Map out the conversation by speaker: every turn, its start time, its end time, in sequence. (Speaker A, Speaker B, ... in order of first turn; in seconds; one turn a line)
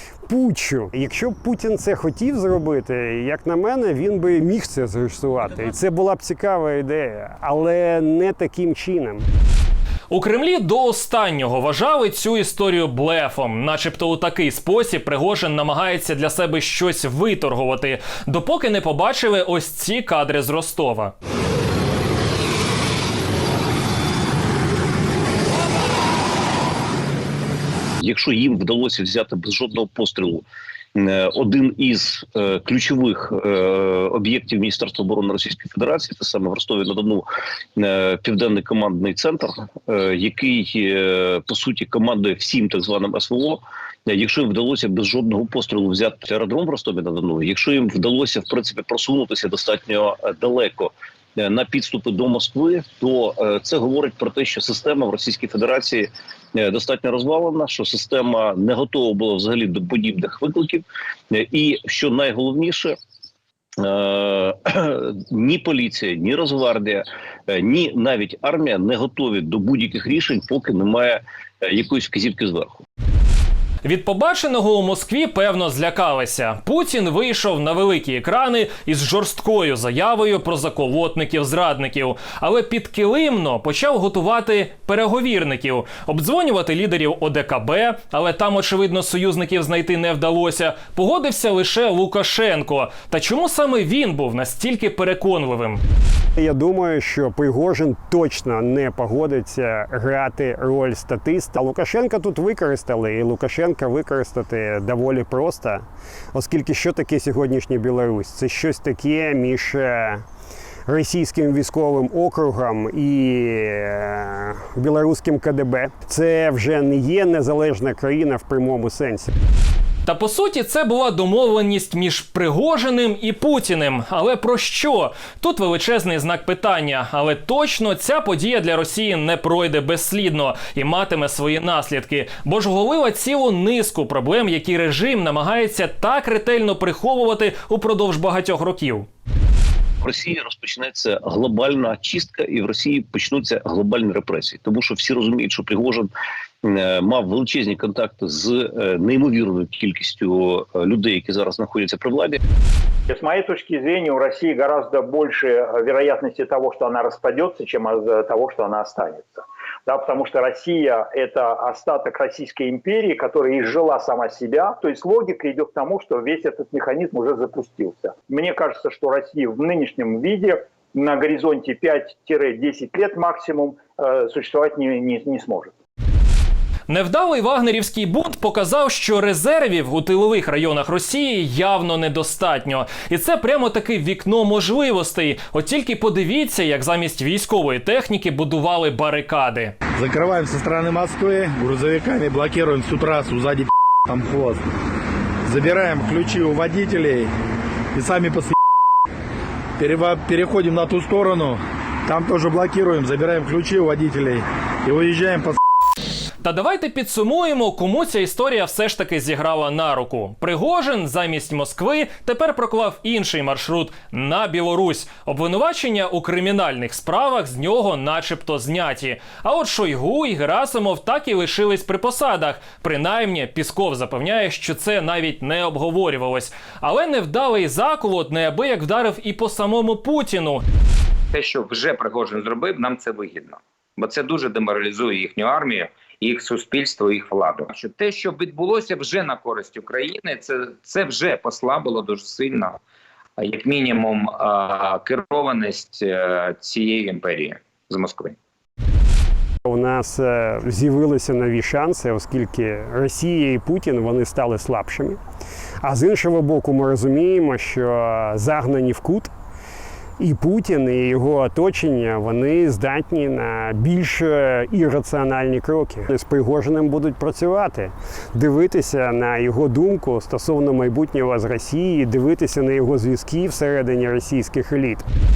Speaker A: 0.2-9.3
Speaker B: 10.1-21.1
Speaker C: 28.0-37.3
Speaker C: 37.8-63.0
Speaker C: 63.8-72.8
Speaker B: 73.8-95.8
Speaker A: 96.4-110.2
Speaker A: 110.9-119.3
Speaker B: 120.1-139.1
Speaker C: 140.0-146.1
Speaker C: 146.6-152.4
Speaker D: 153.1-175.7
Speaker B: 176.9-189.8
Speaker E: 190.0-194.6
Speaker E: 195.5-197.3
Speaker E: 197.9-198.5
Speaker E: 199.8-205.6
Speaker B: 206.4-230.6
Speaker F: 231.3-242.8
Speaker F: 243.4-248.4
Speaker A: 249.7-255.2
Speaker A: 255.8-259.3
Speaker A: 260.2-275.1